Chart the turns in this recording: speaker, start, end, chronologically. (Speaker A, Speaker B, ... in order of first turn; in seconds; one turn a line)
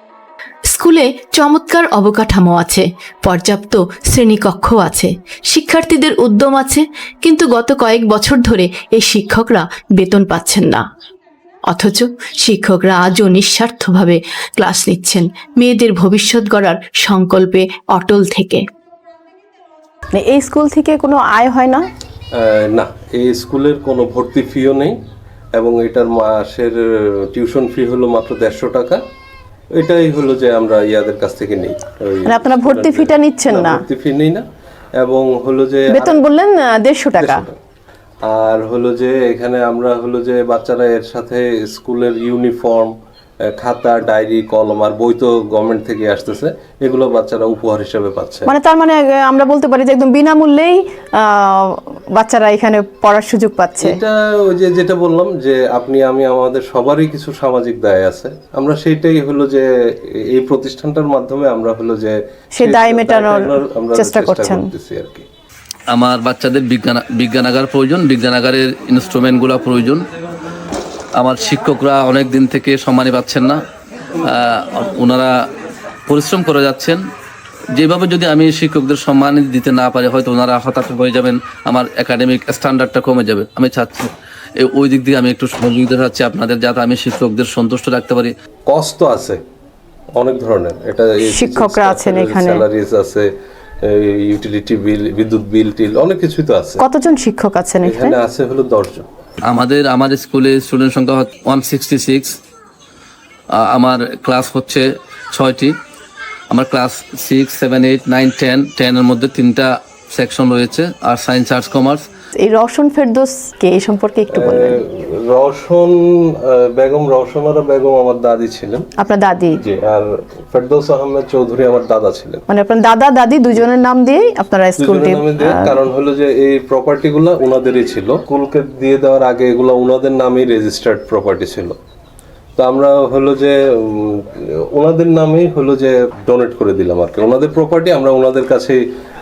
Speaker A: 0.7-10.8
Speaker A: 11.7-18.6
Speaker B: 20.1-21.8
Speaker C: 22.4-25.0
Speaker C: 25.6-26.8
Speaker C: 27.3-29.0
Speaker C: 29.8-34.5
Speaker B: 32.3-33.8
Speaker C: 35.0-36.2
Speaker B: 35.9-37.4
Speaker C: 37.2-37.5
Speaker C: 38.3-42.9
Speaker C: 43.6-48.5
Speaker B: 48.5-53.9
Speaker C: 53.8-59.7
Speaker C: 60.3-65.3
Speaker B: 62.6-64.7
Speaker D: 65.9-70.0
Speaker D: 71.2-73.6
Speaker D: 74.2-75.3
Speaker D: 76.1-77.0
Speaker D: 77.8-88.3
Speaker C: 88.7-89.4
Speaker C: 90.2-93.3
Speaker B: 91.3-92.6
Speaker C: 93.9-96.8
Speaker B: 96.8-98.2
Speaker C: 97.8-99.1
Speaker D: 99.5-102.4
Speaker D: 103.6-105.7
Speaker D: 106.5-112.0
Speaker B: 112.4-114.8
Speaker C: 114.4-116.0
Speaker C: 116.8-118.9
Speaker B: 119.0-119.5
Speaker C: 119.6-122.4
Speaker B: 122.5-125.8
Speaker C: 124.8-131.8
Speaker C: 132.6-138.8